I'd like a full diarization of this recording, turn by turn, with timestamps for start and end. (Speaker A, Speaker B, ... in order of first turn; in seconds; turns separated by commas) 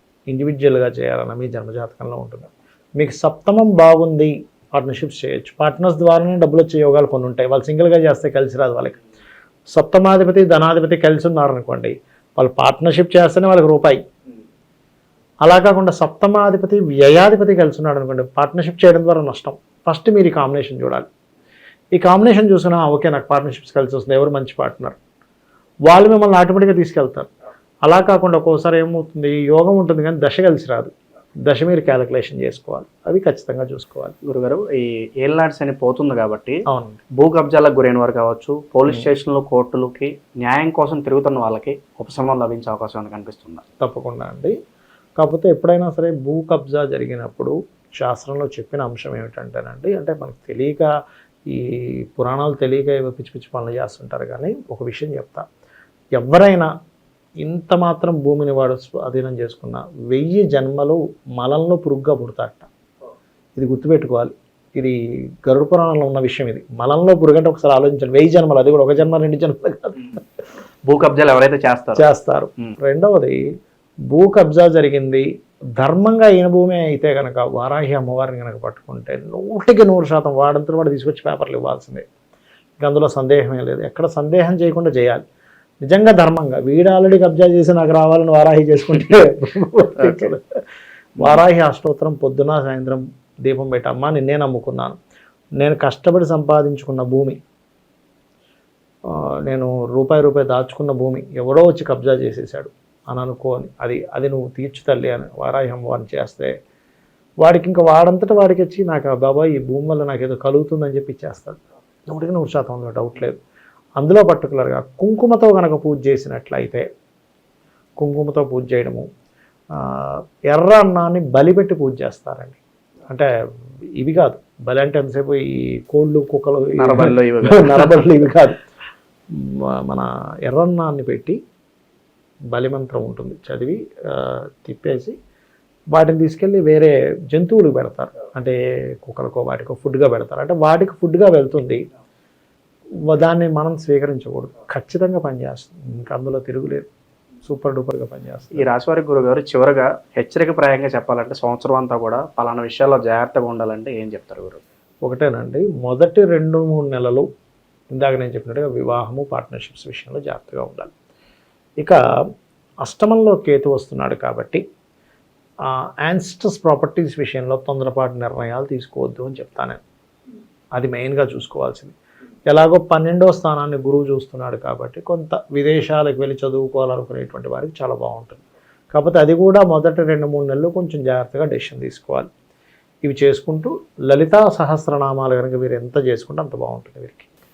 Speaker A: 0.3-9.0, Speaker A: 9.7-14.0, Speaker A: 15.4-21.1, Speaker A: 21.9-24.9, Speaker A: 25.9-27.3, Speaker A: 27.8-30.9, Speaker A: 31.4-34.1, Speaker B: 34.2-36.6, Speaker A: 36.7-37.0, Speaker B: 37.2-43.6, Speaker A: 43.8-44.5, Speaker A: 45.2-50.9, Speaker A: 51.5-55.4, Speaker A: 56.1-56.7, Speaker A: 57.4-62.7, Speaker A: 63.6-70.2, Speaker B: 70.9-72.0, Speaker A: 72.0-73.5, Speaker A: 74.1-75.2, Speaker A: 75.8-82.0, Speaker A: 82.8-85.2, Speaker A: 85.8-90.4, Speaker B: 90.0-90.3, Speaker A: 91.2-95.0, Speaker A: 95.6-97.4, Speaker A: 99.1-106.5, Speaker A: 107.4-113.3, Speaker A: 114.0-116.8, Speaker A: 118.0-119.1, Speaker A: 119.7-123.3, Speaker A: 124.0-128.6, Speaker B: 126.8-128.1, Speaker A: 129.3-131.4, Speaker A: 132.5-135.2, Speaker A: 135.9-141.8, Speaker A: 143.1-146.8, Speaker A: 147.4-148.7, Speaker B: 148.5-154.6, Speaker A: 155.0-157.2, Speaker A: 157.9-160.9, Speaker A: 162.8-164.6, Speaker A: 165.6-169.8, Speaker A: 170.7-171.9, Speaker A: 172.5-182.3, Speaker A: 183.0-187.3